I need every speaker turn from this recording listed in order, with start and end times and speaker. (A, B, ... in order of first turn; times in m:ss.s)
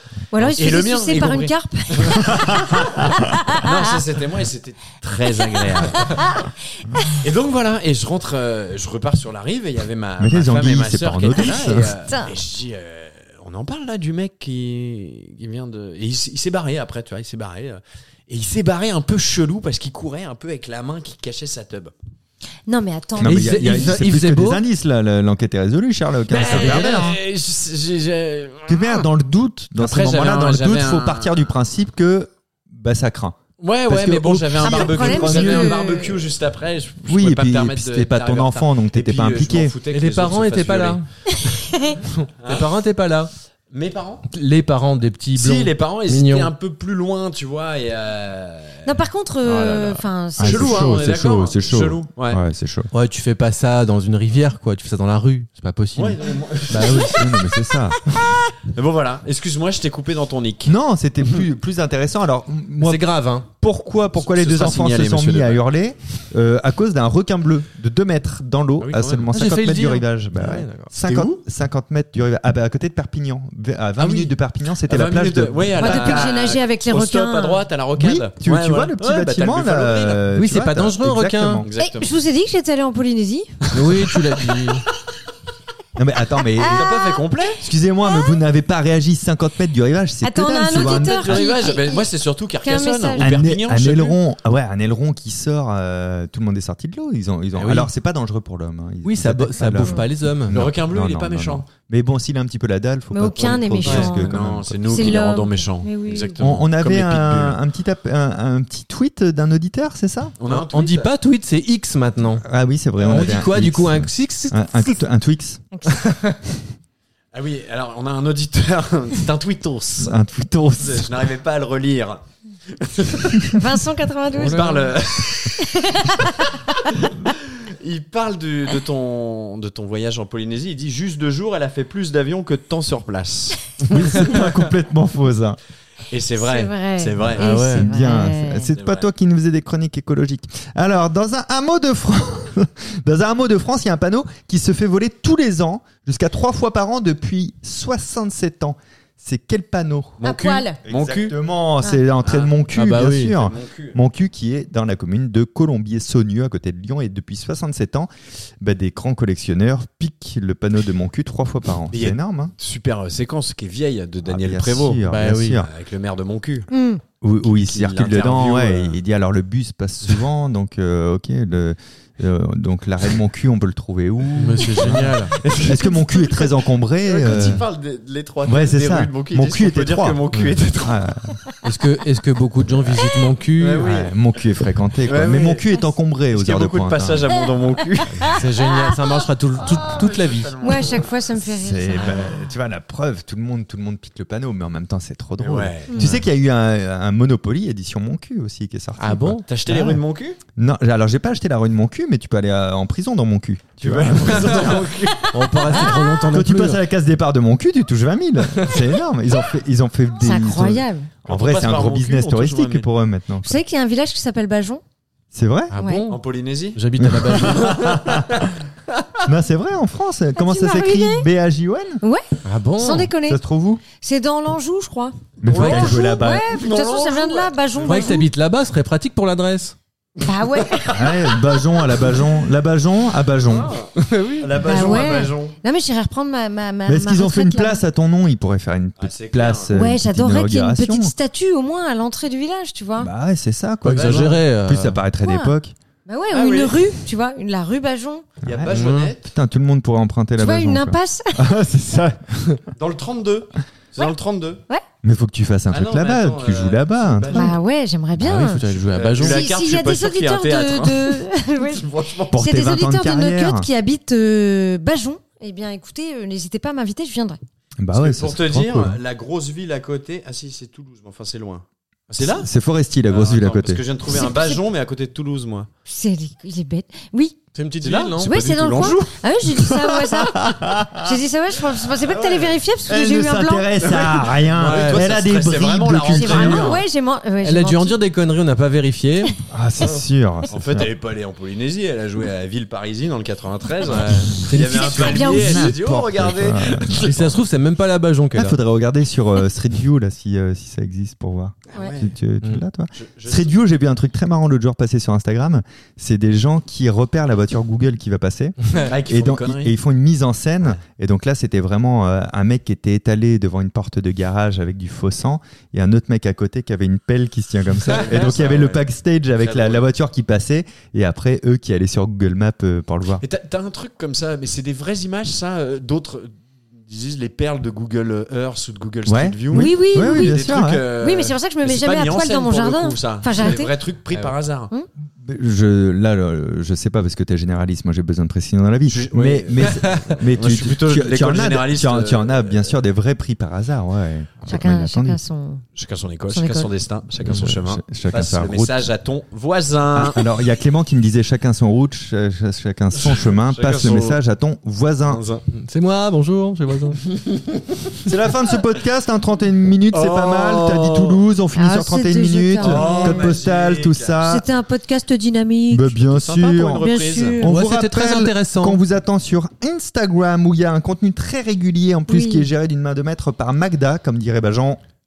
0:00.3-0:03.8 A
0:00.4-0:06.3 B
0:02.3-0:03.3 C
0:06.0-0:07.2 A
0:07.2-0:21.9 B
0:10.2-0:12.0 C
0:12.0-0:12.3 A
0:22.7-0:23.9 A
0:23.2-0:27.2 C
0:23.2-0:24.6 D
0:26.3-0:29.1 B
0:26.4-0:27.1 D
0:28.7-0:35.8 C
0:29.8-0:31.4 B
0:33.6-0:41.0 B
0:34.6-0:36.3 A
0:37.0-0:39.7 C
0:39.9-0:41.0 D
0:42.1-0:43.3 D
0:43.7-0:44.3 B
0:44.3-0:46.5 D
0:45.3-0:52.4 B
0:48.8-0:51.0 A
0:50.4-0:52.9 C
0:52.9-0:56.2 D
0:55.9-0:57.2 B
0:56.7-0:58.4 C
0:58.7-1:00.7 B
1:00.6-1:03.0 C
1:02.8-1:03.5 D
1:03.6-1:16.3 C
1:04.1-1:05.6 B
1:08.8-1:09.3 B
1:09.3-1:10.9 D
1:11.0-1:11.4 B
1:14.0-1:14.3 B
1:14.8-1:20.2 B
1:15.8-1:17.6 A
1:18.0-1:21.7 C
1:20.3-1:21.6 D
1:21.6-1:22.2 B
1:21.8-1:23.5 A
1:23.7-1:24.1 B
1:23.7-1:24.8 D
1:26.0-1:26.9 C
1:26.6-1:27.2 A
1:26.7-1:27.6 B
1:27.6-1:31.5 C
1:28.0-1:28.4 A
1:30.2-1:33.3 A
1:30.7-1:34.2 B
1:33.2-1:45.2 C
1:37.6-1:37.9 D
1:39.0-1:40.7 D
1:39.8-1:40.0 A
1:40.5-1:41.7 B
1:43.1-1:46.4 A
1:43.4-1:47.6 B
1:46.4-1:50.3 C
1:50.4-1:51.1 B
1:50.4-1:52.4 D
1:52.4-1:55.6 C
1:53.0-1:53.3 B
1:53.0-1:54.5 D
1:55.7-1:56.0 A
1:55.9-1:56.3 D
1:57.3-2:00.2 B
2:00.0-2:01.1 C
2:00.8-2:03.6 B
2:03.5-2:04.9 A
2:04.4-2:04.9 D
2:04.4-2:05.6 B
2:05.5-2:06.5 A
2:07.0-2:14.5 B
2:13.9-2:15.6 C
2:16.1-2:17.5 B
2:16.4-2:18.7 A
2:17.2-2:30.2 C
2:17.4-2:17.8 D
2:18.7-2:19.1 B
2:30.2-2:31.3 B
2:30.2-2:30.8 A
2:30.8-2:42.5 C
2:32.2-2:32.5 B
2:32.7-2:33.3 D
2:33.3-2:34.0 B
2:41.9-2:45.0 B
2:44.2-2:45.7 C
2:45.0-2:45.6 D
2:45.6-2:46.7 B
2:46.7-2:47.0 A
2:47.2-2:57.6 C
2:47.4-2:49.0 B
2:54.3-2:55.8 D
2:57.0-3:01.0 B
2:58.4-3:01.4 C
3:01.6-3:03.8 D
3:03.6-3:04.1 B
3:03.8-3:07.3 C
3:05.1-3:05.7 B
3:06.3-3:08.2 B
3:08.2-3:08.9 A
3:08.2-3:11.0 D
3:09.6-3:11.1 B
3:10.6-3:12.4 A
3:11.4-3:20.0 C
3:15.4-3:16.1 B
3:19.0-3:19.5 D
3:19.5-3:20.4 B
3:20.5-3:25.0 C
3:23.8-3:25.4 B
3:24.2-3:26.8 D
3:26.3-3:33.6 C
3:30.2-3:31.1 A
3:31.2-3:32.9 B
3:33.4-3:34.8 A
3:35.3-3:35.7 C
3:35.7-3:38.0 D
3:36.1-3:36.8 B
3:37.0-3:38.5 C
3:37.4-3:38.5 B
3:39.2-3:42.0 C
3:40.4-3:41.3 A
3:42.4-3:43.1 D
3:42.8-3:43.4 A
3:43.2-3:43.8 C
3:44.0-3:48.3 A
3:45.4-3:46.5 C
3:45.5-3:45.9 D
3:45.5-3:48.2 B
3:47.8-3:49.7 D
3:50.2-3:51.6 A
3:50.2-3:50.9 B
3:50.9-3:53.7 C
3:53.4-3:55.6 B
3:54.0-3:54.6 D
3:54.6-3:57.8 A
3:54.7-3:55.1 C
3:56.8-4:01.1 C
3:59.0-3:59.7 B
3:59.7-4:03.1 A
4:03.0-4:05.7 C
4:03.8-4:05.0 D
4:03.9-4:04.4 B
4:05.2-4:05.5 A
4:06.0-4:08.2 A
4:06.3-4:06.9 B
4:08.4-4:08.7 C
4:08.4-4:09.2 B
4:08.7-4:09.1 D
4:09.2-4:12.6 C
4:10.4-4:11.5 A
4:12.7-4:14.6 B
4:15.0-4:17.6 C
4:15.7-4:17.6 B
4:17.3-4:18.6 A
4:18.2-4:19.5 D
4:18.7-4:22.4 B
4:19.2-4:27.4 A
4:22.3-4:23.7 C
4:27.8-4:29.0 C
4:27.9-4:32.5 B
4:32.2-4:33.8 C
4:33.1-4:35.7 B
4:34.1-4:34.6 A
4:35.8-4:37.4 A
4:37.5-4:38.3 D
4:37.8-4:39.2 B
4:38.2-4:43.7 A
4:39.5-4:41.2 C
4:42.0-4:42.6 B
4:42.9-4:46.8 C
4:43.8-4:46.8 B
4:46.1-4:48.0 A
4:47.4-4:49.3 D
4:49.5-4:50.9 C
4:49.9-4:57.4 B
4:53.8-4:54.4 D
4:54.4-4:57.2 C
4:54.6-4:55.8 A
4:57.0-4:58.6 D
4:58.4-5:23.2 C
5:01.7-5:02.1 B
5:02.9-5:03.5 B
5:08.8-5:09.7 B
5:17.8-5:18.8 B
5:19.4-5:19.8 B
5:23.2-5:34.7 B
5:29.0-5:30.9 C
5:29.5-5:30.4 A
5:31.0-5:33.7 A
5:35.2-5:45.2 C
5:38.9-5:42.7 B
5:44.5-5:45.6 A
5:45.7-5:50.2 B
5:46.3-5:46.7 A
5:47.3-5:47.5 D
5:47.3-5:48.9 C
5:49.9-5:55.2 C
5:53.0-5:54.2 B
5:55.0-5:55.4 B
5:55.5-5:57.0 D
5:58.0-6:04.4 C
5:59.9-6:01.2 B
6:01.5-6:03.3 A
6:02.6-6:04.2 B
6:04.2-6:06.0 A
6:05.7-6:14.8 C
6:06.1-6:07.4 B
6:06.8-6:07.5 A
6:07.4-6:08.8 D
6:12.1-6:12.5 A